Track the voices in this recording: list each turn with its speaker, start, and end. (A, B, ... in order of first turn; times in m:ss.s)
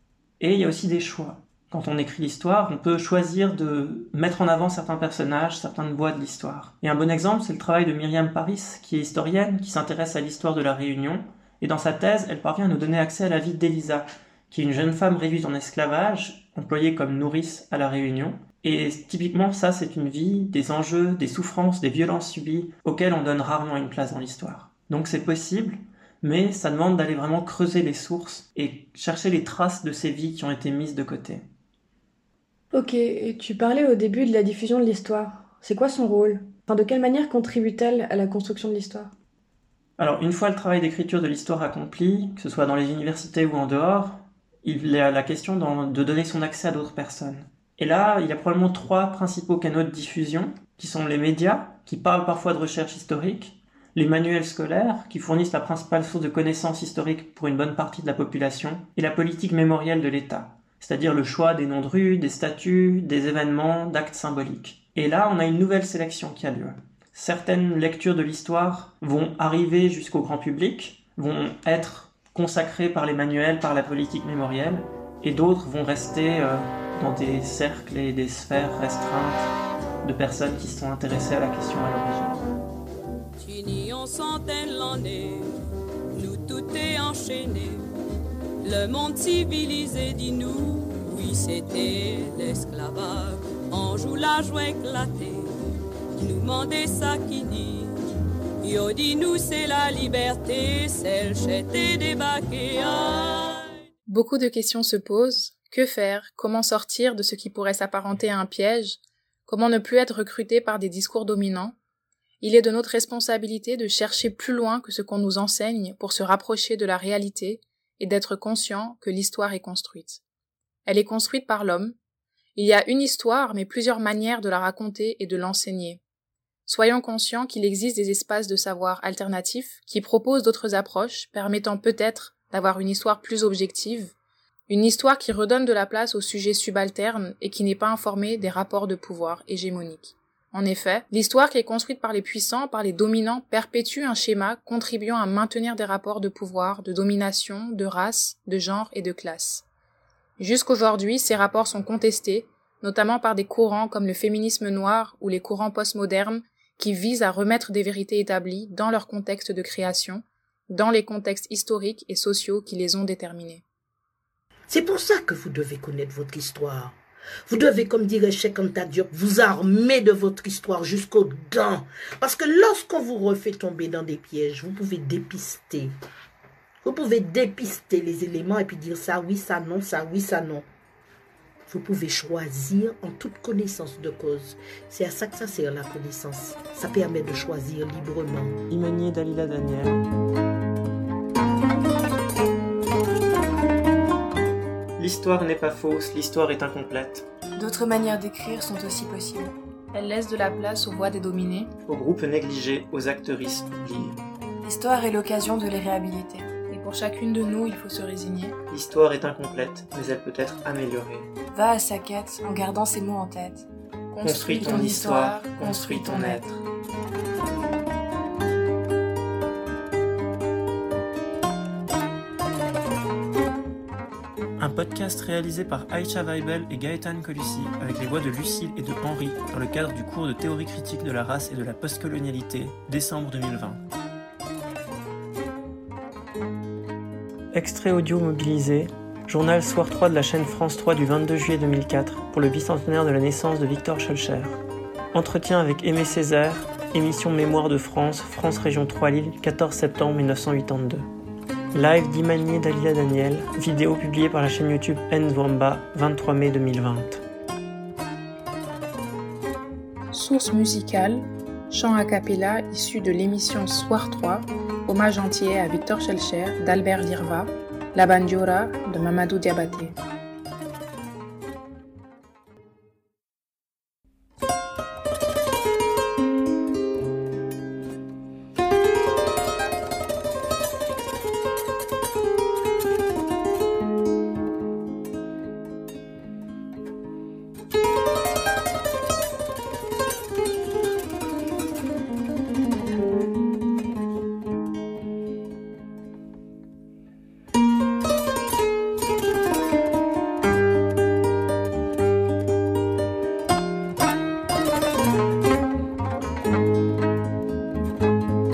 0:00.4-0:31.4 A
0:32.7-0:39.1 B
0:40.0-1:19.5 A
1:20.0-1:22.4 A
1:23.4-1:25.5 C
1:26.1-1:27.8 C
1:28.6-1:35.5 C
1:36.1-1:38.0 C
1:38.6-1:43.7 C
1:44.1-1:51.7 D
1:52.4-2:00.2 D
2:00.8-2:01.9 D
2:02.6-2:06.0 D
2:06.7-2:14.1 D
2:14.7-2:29.6 D
2:30.4-2:43.6 D
2:44.7-2:47.0 E
2:47.5-2:55.9 E
2:56.8-3:00.6 E
3:01.7-3:08.6 E
3:08.7-3:10.0 A
3:15.0-3:17.2 A
3:19.9-3:21.7 D
3:21.9-3:24.2 A
3:26.7-3:28.6 D
3:28.7-3:31.3 A
3:34.1-3:36.5 D
3:34.2-3:36.5 A
3:44.6-3:53.8 A
3:57.5-4:04.6 A
4:05.1-4:11.1 A
4:11.7-4:17.2 A
4:20.1-4:30.0 D